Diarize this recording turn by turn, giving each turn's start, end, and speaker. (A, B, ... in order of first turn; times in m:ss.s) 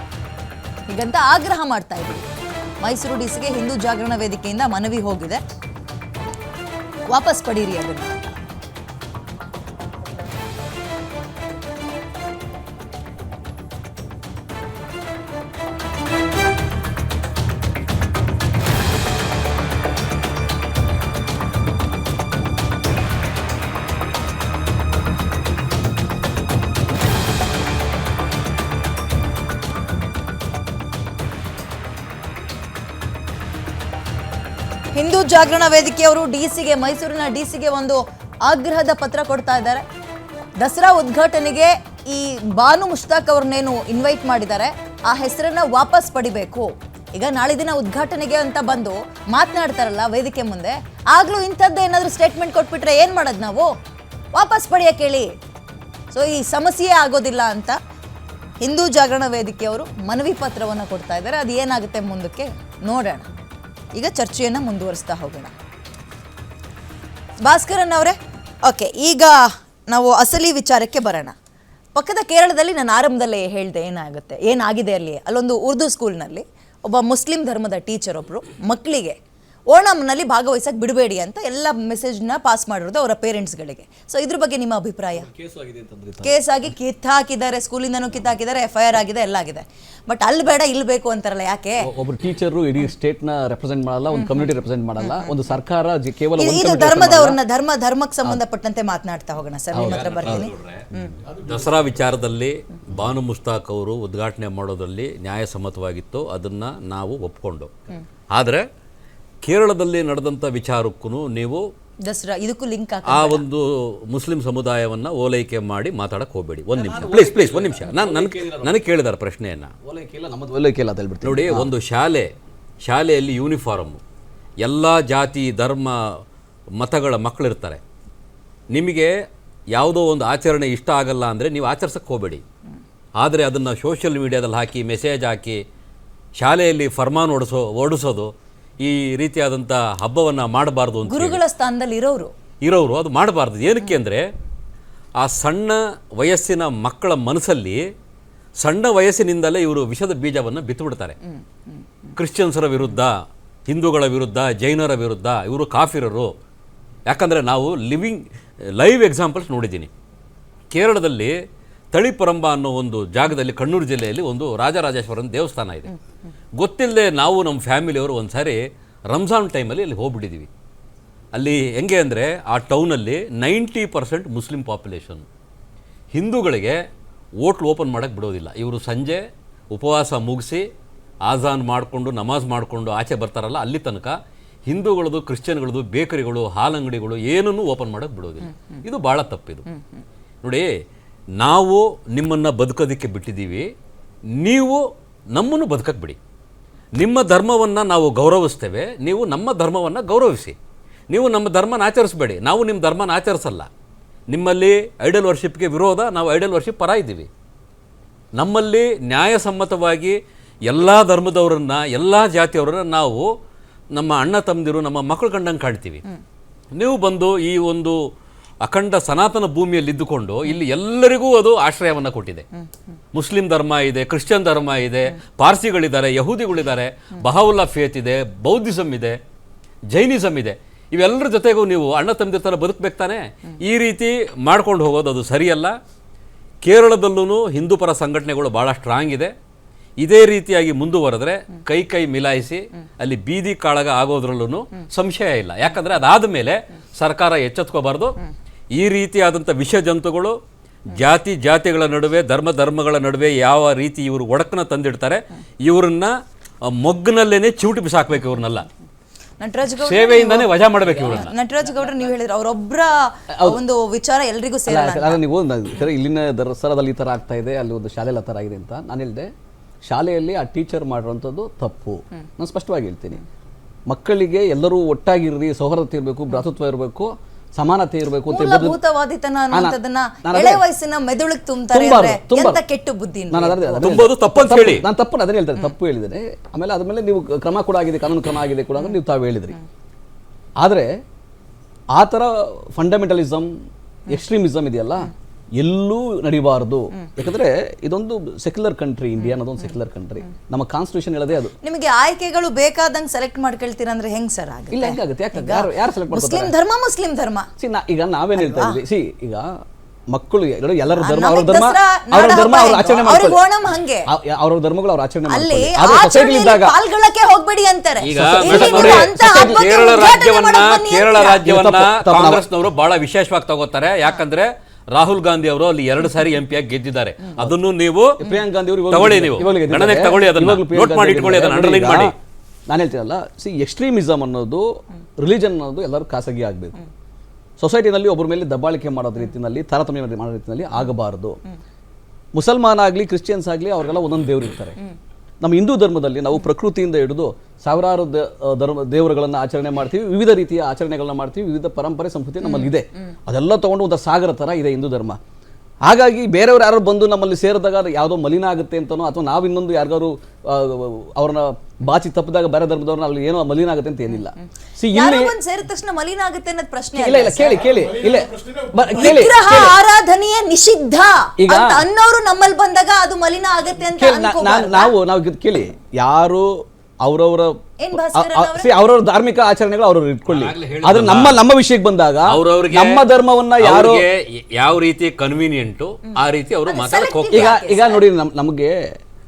0:00.9-0:05.4 A
0:07.1-0:08.1 A
0:35.0-0:39.8 A
0:40.6-0:53.7 A
0:54.3-0:55.4 A
0:56.1-0:57.8 A
0:58.6-1:03.3 A
1:03.9-1:05.5 A
1:07.4-1:11.3 A
1:12.0-1:19.2 A
1:19.7-1:25.3 A
1:25.2-1:26.4 B
1:26.2-1:31.9 A
1:31.8-1:37.4 B
1:34.1-1:35.3 A
1:36.4-1:41.2 A
1:39.7-1:40.5 B
1:39.8-1:40.8 C
1:41.3-1:47.7 C
1:48.3-1:48.6 C
1:49.4-1:51.6 C
1:52.1-1:53.4 A
1:53.1-1:59.7 C
1:56.7-1:58.8 B
1:59.8-2:01.7 B
2:01.2-2:02.3 C
2:02.8-2:04.0 C
2:04.6-2:06.2 C
2:06.8-2:07.8 C
2:08.7-2:09.1 C
2:09.7-2:12.4 C
2:13.2-2:15.6 C
2:16.4-2:21.4 C
2:21.1-2:22.3 A
2:22.6-2:24.3 C
2:25.2-2:27.8 C
2:28.6-2:31.2 C
2:32.2-2:33.1 C
2:33.7-2:36.3 C
2:37.1-2:38.2 C
2:38.8-2:39.9 C
2:40.7-2:41.3 C
2:41.9-2:45.9 C
2:46.6-2:48.6 C
2:49.1-2:50.5 C
2:51.3-2:55.3 C
2:56.1-2:56.8 C
2:57.4-3:00.7 C
3:01.2-3:04.2 C
3:04.7-3:09.7 C
3:11.4-3:13.7 C
3:14.4-3:14.8 C
3:15.3-3:16.2 C
3:17.0-3:20.6 C
3:21.1-3:23.7 C
3:24.3-3:27.3 C
3:28.4-3:33.2 C
3:33.9-3:36.0 C
3:36.7-3:38.0 C
3:38.6-3:42.5 C
3:43.1-3:49.2 C
3:49.9-3:55.7 C
3:56.6-3:59.3 C
4:00.0-4:08.2 C
4:08.7-4:16.1 C
4:16.7-4:18.7 C
4:19.4-4:20.5 A
4:19.8-4:21.3 C
4:21.0-4:25.2 A
4:23.3-4:23.6 B
4:24.7-4:29.3 B
4:29.8-4:33.2 B
4:33.9-4:38.8 B
4:38.3-4:44.0 A
4:39.5-4:40.6 B
4:41.7-4:42.6 B
4:43.3-4:49.6 B
4:43.8-4:44.9 C
4:50.6-4:50.9 B
4:51.9-4:53.5 B
4:54.1-5:01.5 B
5:01.6-5:07.5 A
5:04.7-5:06.5 B
5:07.6-5:09.5 B
5:08.4-5:08.8 A
5:10.1-5:13.4 B
5:11.0-5:14.1 A
5:14.1-5:16.7 B
5:15.3-5:21.4 A
5:18.0-5:28.2 C
5:18.2-5:19.7 B
5:21.4-5:22.4 B
5:28.2-5:32.1 B
5:28.9-5:32.1 C
5:32.7-5:34.7 B
5:35.2-5:36.8 B
5:37.6-5:41.4 B
5:42.3-5:44.8 B
5:45.4-5:55.2 B
5:52.4-5:52.8 A
5:55.8-6:05.4 B
6:04.9-6:07.6 A
6:07.0-6:09.8 B
6:08.9-6:14.9 A
6:11.4-6:11.8 B
6:14.0-6:24.0 B
6:17.8-6:18.7 A
6:20.3-6:21.4 C
6:22.3-6:23.0 C
6:23.6-6:27.6 C
6:26.7-6:28.0 A
6:27.3-6:28.8 B